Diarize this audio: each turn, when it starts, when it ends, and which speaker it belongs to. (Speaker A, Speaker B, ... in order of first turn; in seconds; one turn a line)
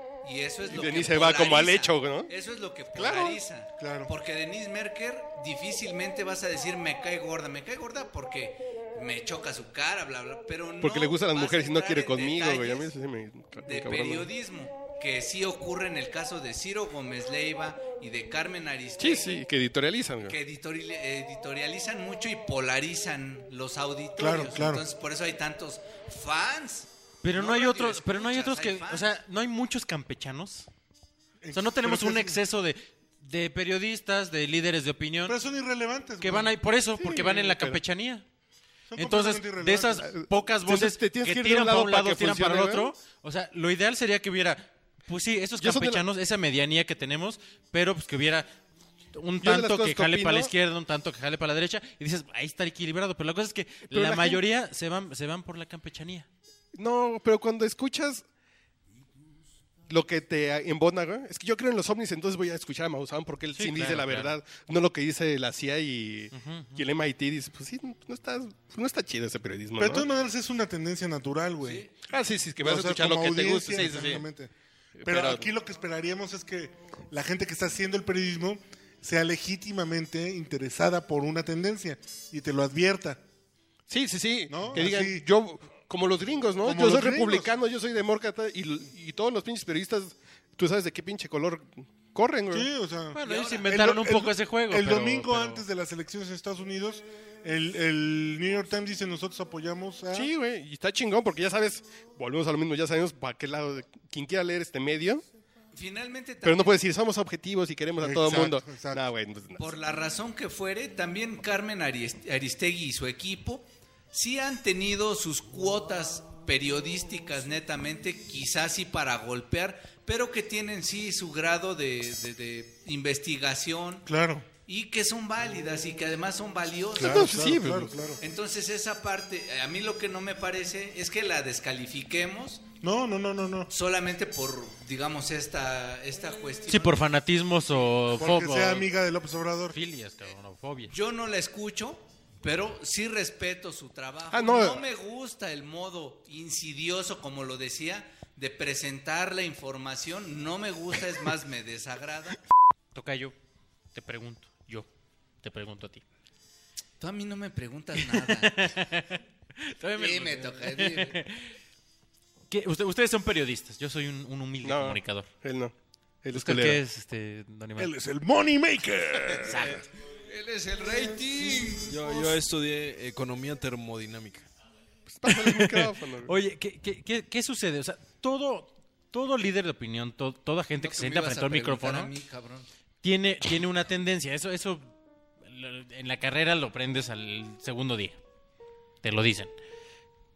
Speaker A: 0.2-12.9
Speaker B: 0.7-2.3
Speaker B: 3.0-3.3
Speaker C: 3.8-4.1
Speaker B: 10.8-14.3
Speaker A: 13.7-19.4
Speaker B: 19.0-20.4
Speaker A: 20.3-29.2
Speaker C: 24.2-24.9
Speaker D: 27.2-30.7
Speaker C: 31.4-32.4
Speaker D: 31.5-35.4
Speaker C: 35.2-36.6
Speaker D: 36.2-38.2
Speaker B: 37.0-37.8
Speaker C: 38.9-40.1
Speaker D: 39.0-48.5
Speaker B: 40.0-42.9
Speaker B: 45.6-46.0
Speaker D: 49.1-56.3
Speaker B: 49.4-50.5
Speaker B: 53.9-54.4
Speaker B: 56.7-58.2
Speaker B: 59.9-70.1
Speaker D: 63.5-64.4
Speaker D: 66.3-66.8
Speaker C: 69.8-71.9
Speaker A: 71.6-71.9
Speaker B: 72.1-74.2
Speaker C: 72.6-74.5
Speaker B: 75.0-75.5
Speaker C: 75.0-83.2
Speaker B: 83.9-92.7
Speaker C: 84.5-85.2
Speaker C: 86.6-87.5
Speaker C: 92.5-100.3
Speaker D: 93.1-95.6
Speaker A: 93.2-93.7
Speaker B: 100.1-105.2
Speaker A: 105.7-106.8
Speaker B: 106.4-109.6
Speaker C: 108.0-109.0
Speaker A: 109.6-124.1
Speaker C: 124.1-124.5
Speaker A: 124.7-127.5
Speaker B: 127.0-127.9
Speaker C: 127.0-128.2
Speaker A: 128.2-132.7
Speaker C: 132.8-133.7
Speaker A: 133.7-137.0
Speaker D: 136.7-138.9
Speaker C: 138.1-139.8
Speaker D: 139.7-140.9
Speaker A: 140.9-152.4
Speaker B: 144.3-144.8
Speaker D: 152.9-153.3
Speaker D: 153.9-154.9
Speaker D: 155.4-156.0
Speaker A: 157.0-158.8
Speaker D: 158.0-161.5
Speaker A: 160.0-161.2
Speaker D: 162.5-165.3
Speaker B: 164.6-166.8
Speaker D: 166.3-167.9
Speaker C: 167.8-169.8
Speaker D: 169.5-169.8
Speaker A: 170.3-172.3
Speaker E: 171.9-174.5
Speaker B: 175.1-176.3
Speaker D: 175.3-182.1
Speaker A: 180.8-182.7
Speaker D: 183.0-184.9
Speaker D: 185.4-188.2
Speaker D: 189.0-189.5